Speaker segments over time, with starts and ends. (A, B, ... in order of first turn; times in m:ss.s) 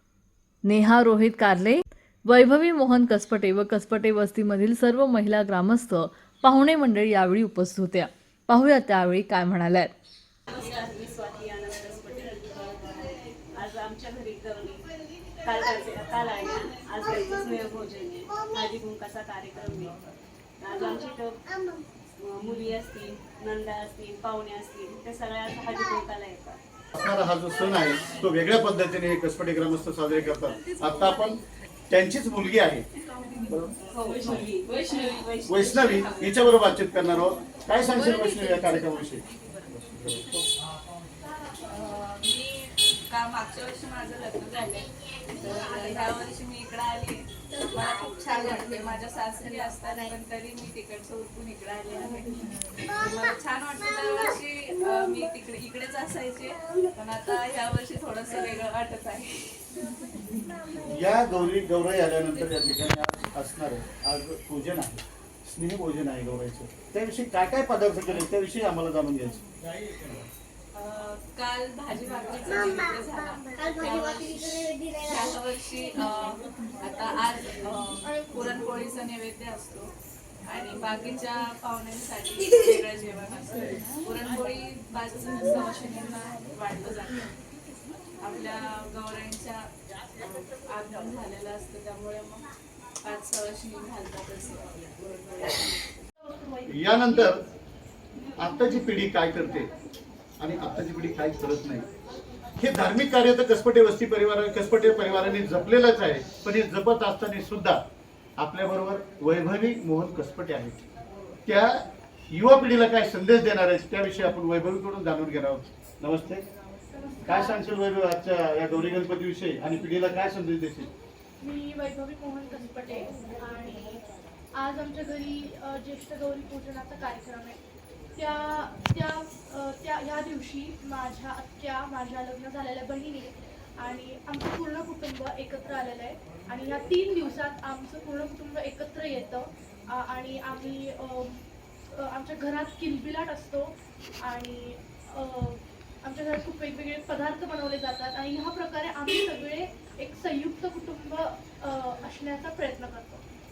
0:00.6-0:09.9 A
0:10.5-0:14.9 B
0:15.4-0:20.0 B
0:20.6-0:21.4 B
0:22.2-0:26.6 B
0:26.9-0:32.9 C
0:33.2-0:33.5 D
0:33.8-0:36.1 B
0:34.4-0:36.1 D
0:35.5-0:40.4 C
0:41.7-1:00.4 D
1:00.8-1:10.3 C
1:02.3-1:02.6 D
1:10.8-1:19.9 D
1:20.5-1:27.4 D
1:28.2-1:29.7 D
1:30.2-1:32.5 D
1:33.0-1:35.7 D
1:36.2-1:37.3 E
1:36.7-1:37.4 C
1:38.4-1:39.7 C
1:40.4-1:41.9 C
1:42.6-1:47.8 C
1:48.4-1:50.8 C
1:51.5-1:56.5 C
1:56.9-1:57.6 E
1:57.3-2:00.9 C
2:01.4-2:04.0 E
2:04.6-2:07.6 E
2:08.2-2:33.3 E